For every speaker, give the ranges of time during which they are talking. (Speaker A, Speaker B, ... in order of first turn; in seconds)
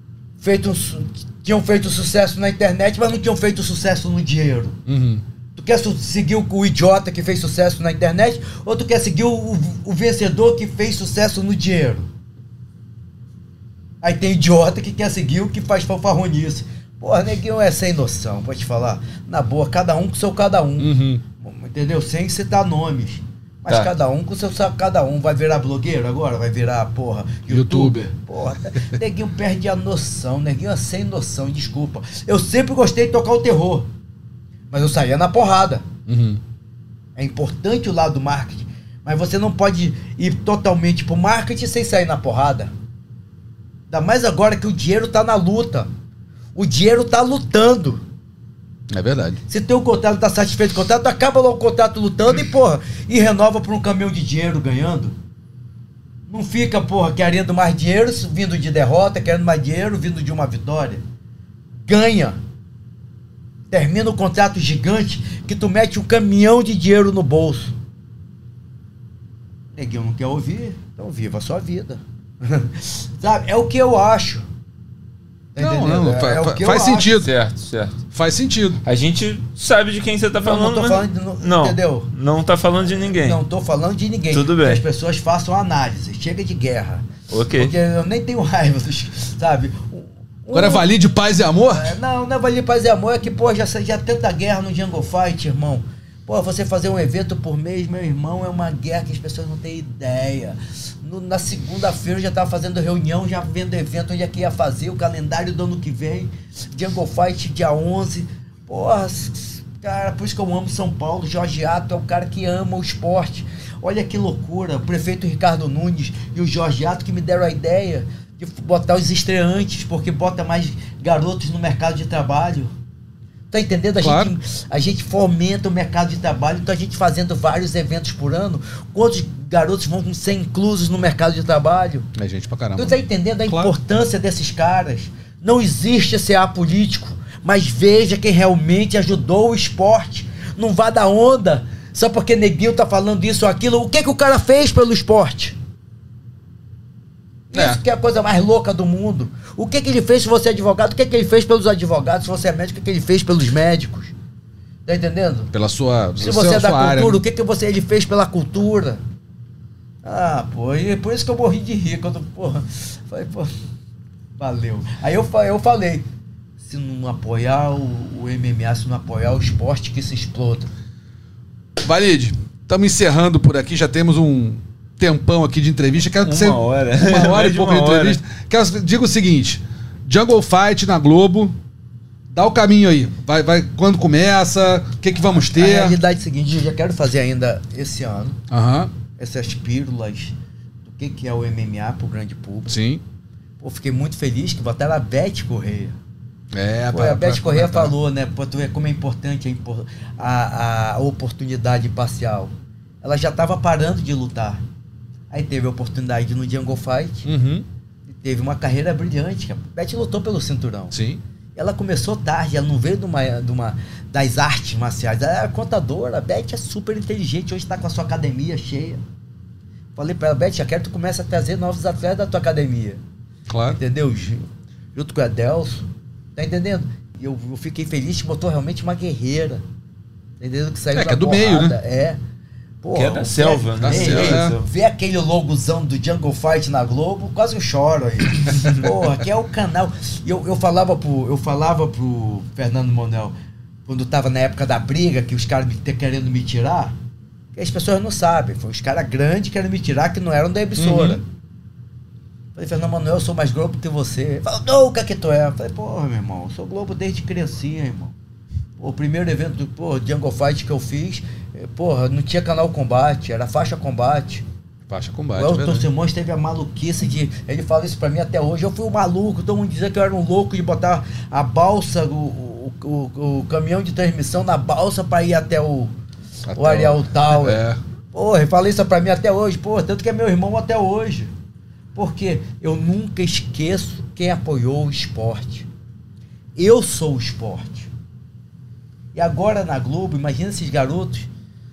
Speaker A: 0.4-4.8, 5.5-12.1, 14.0-33.9, 34.7-35.9, 37.2-42.7, 43.9-45.9, 46.5-48.0, 49.5-55.1, 56.3-61.0, 61.9-62.4, 63.7-67.7, 69.8-74.5, 75.5-77.2, 80.4-82.1, 83.2-90.9, 91.7-122.7, 123.5-132.1, 132.8-145.6, 147.5-154.1, 154.9-155.5, 156.2-159.0, 160.0-163.5, 164.4-166.1, 166.6-170.7, 185.4-188.4, 189.2-190.3, 190.8-192.7, 193.6-195.9, 196.9-204.6, 205.3-207.3, 208.1-210.9, 211.6-219.0, 219.9-223.0, 223.7-229.6, 230.4-232.2, 232.8-243.3, 243.9-246.9, 247.5-251.2, 252.6-258.1, 258.8-264.4, 265.4-275.9, 276.6-277.6, 278.1-281.3, 281.9-285.7, 286.6-287.9, 289.1-291.3
Speaker B: 4.9-5.2, 20.8-21.2, 27.5-28.1, 36.1-36.4, 48.9-49.4, 75.6-77.3, 78.1-78.8, 90.5-91.9, 124.0-124.3, 132.1-133.7, 147.5-147.8, 155.5-157.2, 171.8-181.6, 182.3-186.0, 188.5-188.9, 192.7-193.0, 196.5-197.9, 207.2-207.6, 210.9-211.2, 223.5-223.8, 230.9-231.8, 233.8-234.6, 250.8-251.2, 264.9-265.9, 276.5-277.8
Speaker C: 77.2-78.0, 78.8-83.4, 84.3-84.8, 87.3-87.7, 176.2-178.2, 232.9-234.7